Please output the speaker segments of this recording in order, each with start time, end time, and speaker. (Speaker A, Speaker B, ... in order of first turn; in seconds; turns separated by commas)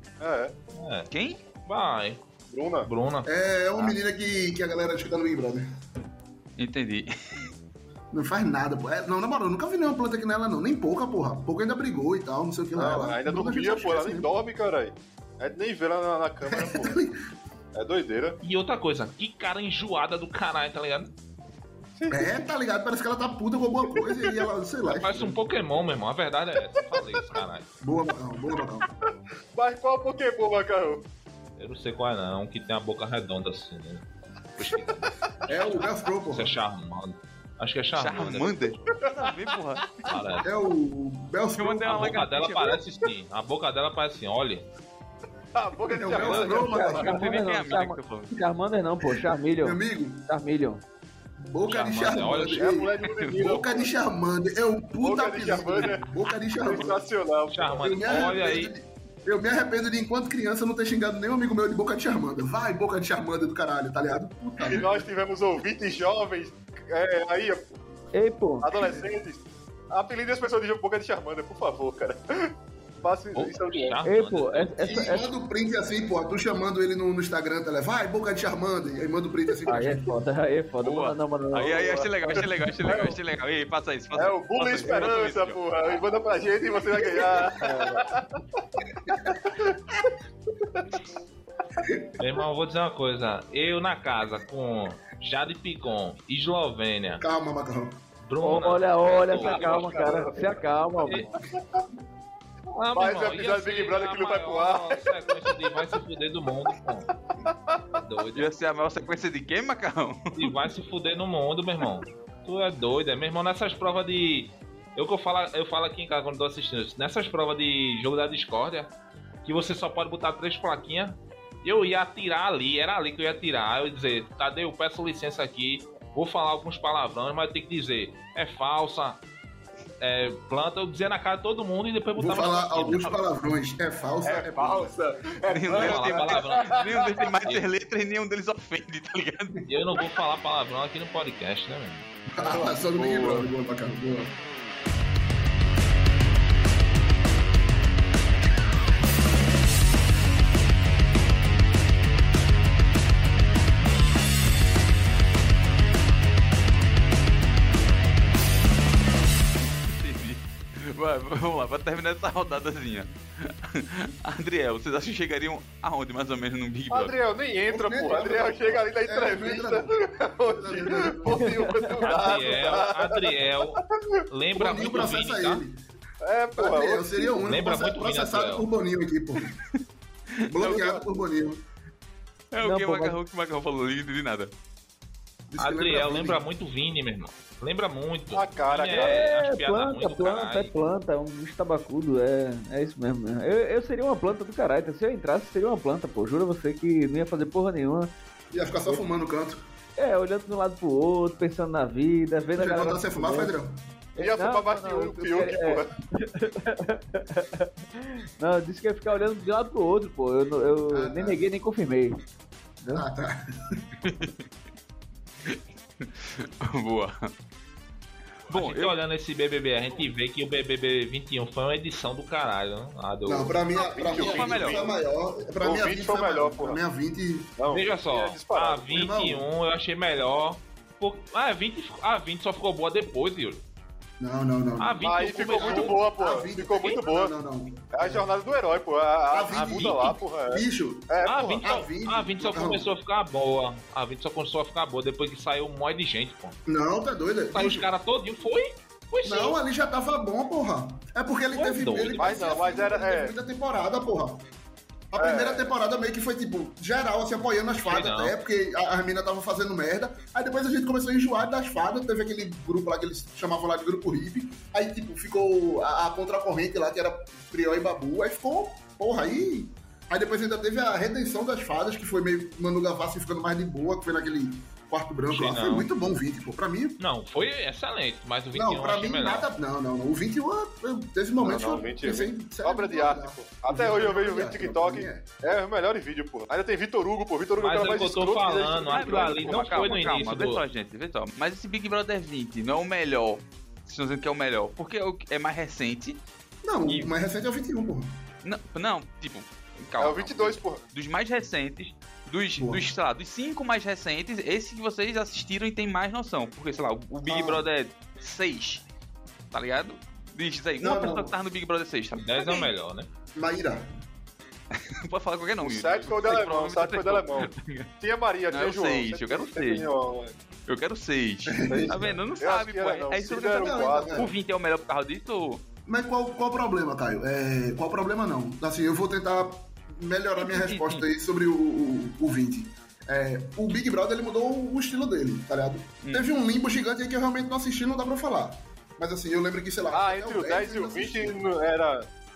Speaker A: 0.2-0.6, Speaker B: 0.7-1.1, Speaker C: 1.1-1.4, Speaker B: 1.6-2.2, Speaker A: 2.5-2.9, Speaker B: 2.9-3.3, Speaker D: 3.2-5.7, Speaker C: 6.6-7.4, Speaker D: 8.1-14.3, Speaker A: 12.7-17.0, Speaker D: 16.5-17.2, Speaker A: 17.7-18.4, Speaker B: 18.4-21.1, Speaker A: 22.0-22.3, Speaker D: 22.1-25.4, Speaker A: 24.0-24.3, Speaker B: 24.9-27.7, Speaker A: 26.8-27.2, Speaker D: 27.8-28.9, Speaker A: 29.5-31.0, Speaker B: 31.6-34.0, Speaker B: 34.6-35.1, Speaker D: 35.5-36.6, Speaker B: 35.6-38.6, Speaker C: 38.0-40.3, Speaker B: 40.0-40.5, Speaker D: 40.4-42.2, Speaker C: 41.5-42.8, Speaker B: 41.9-44.6, Speaker A: 45.5-46.9, Speaker D: 45.9-47.2, Speaker B: 46.1-46.4, Speaker E: 46.3-50.8, Speaker C: 46.9-48.3, Speaker D: 49.6-50.2, Speaker D: 51.4-57.1, Speaker B: 51.7-52.6, Speaker A: 52.5-54.0, Speaker C: 53.1-53.4, Speaker A: 55.0-58.3, Speaker B: 57.5-58.7, Speaker D: 57.8-65.0, Speaker A: 64.6-67.7, Speaker E: 68.1-68.7, Speaker A: 68.6-74.0, Speaker B: 73.3-74.7, Speaker E: 74.0-75.3, Speaker D: 74.8-80.2, Speaker E: 79.7-83.2, Speaker C: 80.8-85.6, Speaker A: 81.6-82.1, Speaker A: 84.1-88.4, Speaker E: 87.6-88.0, Speaker A: 89.3-89.8, Speaker D: 91.8-92.1, Speaker B: 92.2-97.2, Speaker D: 97.2-98.0, Speaker B: 98.2-100.2, Speaker E: 98.4-101.3, Speaker A: 99.3-100.5, Speaker B: 101.0-101.3, Speaker B: 102.7-107.1, Speaker A: 102.9-105.8, Speaker A: 107.0-108.0, Speaker B: 108.0-108.5, Speaker C: 108.3-110.5, Speaker B: 110.3-118.9, Speaker B: 119.4-129.2, Speaker B: 130.0-133.2, Speaker D: 132.2-135.0, Speaker A: 134.2-137.2, Speaker C: 135.4-139.7, Speaker B: 135.7-136.8, Speaker B: 139.6-142.1, Speaker D: 142.3-144.3, Speaker A: 142.4-143.5, Speaker C: 159.8-167.1, Speaker A: 166.9-173.3, Speaker D: 167.7-171.8, Speaker E: 171.4-171.9, Speaker B: 172.0-175.6, Speaker D: 174.5-175.8, Speaker A: 176.2-177.3, Speaker D: 176.6-179.5, Speaker B: 177.4-178.7, Speaker D: 180.4-181.6, Speaker C: 180.6-180.8, Speaker A: 180.7-181.0, Speaker C: 182.5-184.5, Speaker E: 182.6-183.2, Speaker D: 185.5-186.4, Speaker B: 185.6-190.7, Speaker A: 188.3-189.3, Speaker E: 188.9-198.1, Speaker D: 198.5-199.6, Speaker E: 200.0-203.5, Speaker D: 202.6-203.8, Speaker E: 204.2-212.2, Speaker A: 204.2-205.9, Speaker D: 210.9-211.4, Speaker E: 212.8-213.1, Speaker D: 212.9-213.8, Speaker C: 214.0-214.4, Speaker C: 215.5-217.3, Speaker C: 218.5-219.0, Speaker B: 218.5-223.6, Speaker D: 223.2-227.6, Speaker A: 223.8-224.9, Speaker C: 224.1-224.9, Speaker A: 225.6-226.8, Speaker A: 227.6-229.1, Speaker B: 227.7-233.6, Speaker D: 228.9-229.5, Speaker D: 234.2-238.3, Speaker B: 234.8-236.0, Speaker A: 235.0-237.3, Speaker A: 237.9-241.7, Speaker D: 239.3-242.9, Speaker B: 239.5-240.1, Speaker B: 241.2-246.6, Speaker D: 246.7-247.9, Speaker B: 247.5-249.6, Speaker D: 249.2-254.4, Speaker B: 251.5-252.3, Speaker A: 252.1-253.3, Speaker D: 255.1-277.0, Speaker A: 255.2-255.7, Speaker B: 257.8-258.3, Speaker B: 275.3-275.9, Speaker B: 277.0-279.5, Speaker D: 278.5-285.3, Speaker A: 281.4-290.1, Speaker B: 287.6-290.6, Speaker C: 288.9-296.2, Speaker D: 296.6-298.1, Speaker C: 296.8-297.1, Speaker C: 298.4-308.8, Speaker A: 300.0-300.8, Speaker D: 302.6-302.9, Speaker D: 307.2-307.6, Speaker C: 309.5-312.7, Speaker D: 310.8-311.3, Speaker B: 312.1-313.1, Speaker D: 313.3-313.8, Speaker C: 314.7-317.9, Speaker A: 315.6-320.4, Speaker C: 318.5-319.9, Speaker C: 320.7-325.6, Speaker D: 321.5-322.2, Speaker A: 321.7-324.3, Speaker D: 323.5-324.3, Speaker D: 325.9-341.4, Speaker C: 330.4-331.1, Speaker C: 336.0-336.3, Speaker A: 339.9-342.1